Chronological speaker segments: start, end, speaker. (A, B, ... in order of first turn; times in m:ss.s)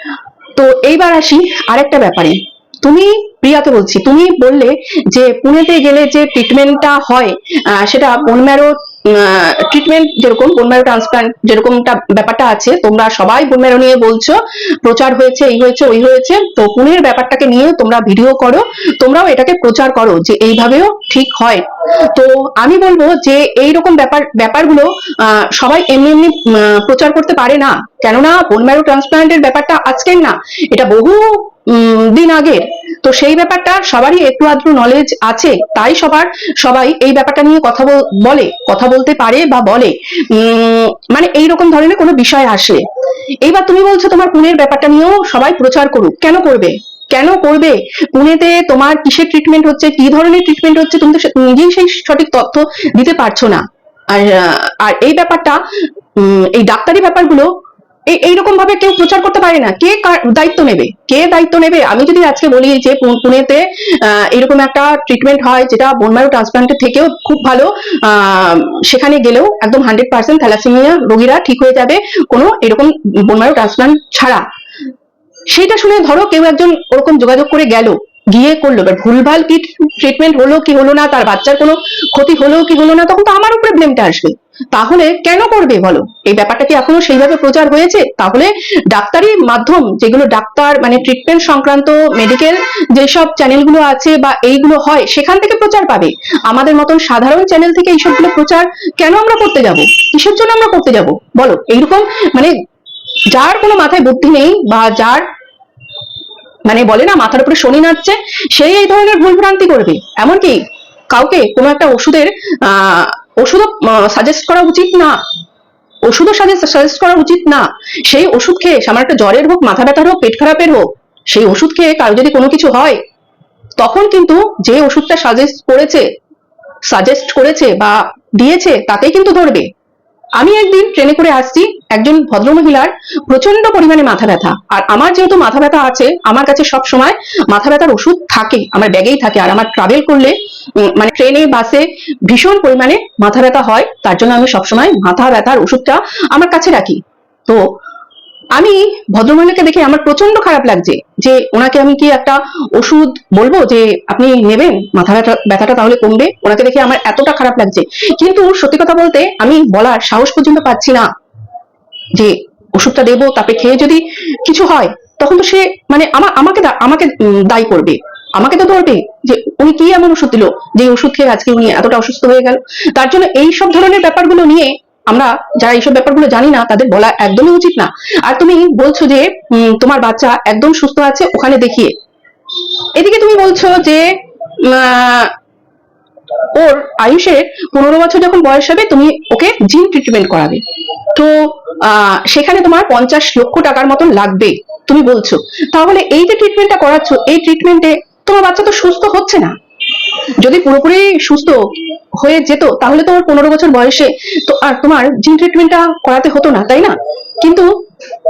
0:00.6-0:42.9 A
0:43.4-0:55.6 A
0:56.2-0:57.5 A
0:58.1-1:14.4 A
1:15.5-1:42.5 A
1:43.3-1:45.2 A
1:46.6-1:50.6 A
1:51.1-1:55.2 A
1:56.0-2:03.0 A
2:03.8-2:06.0 A
2:06.9-2:09.7 A
2:10.4-2:27.7 A
2:28.5-2:41.1 A
2:42.1-3:01.9 A
3:02.9-3:05.3 A
3:06.5-3:19.6 A
3:20.4-3:21.6 A
3:22.2-3:27.7 A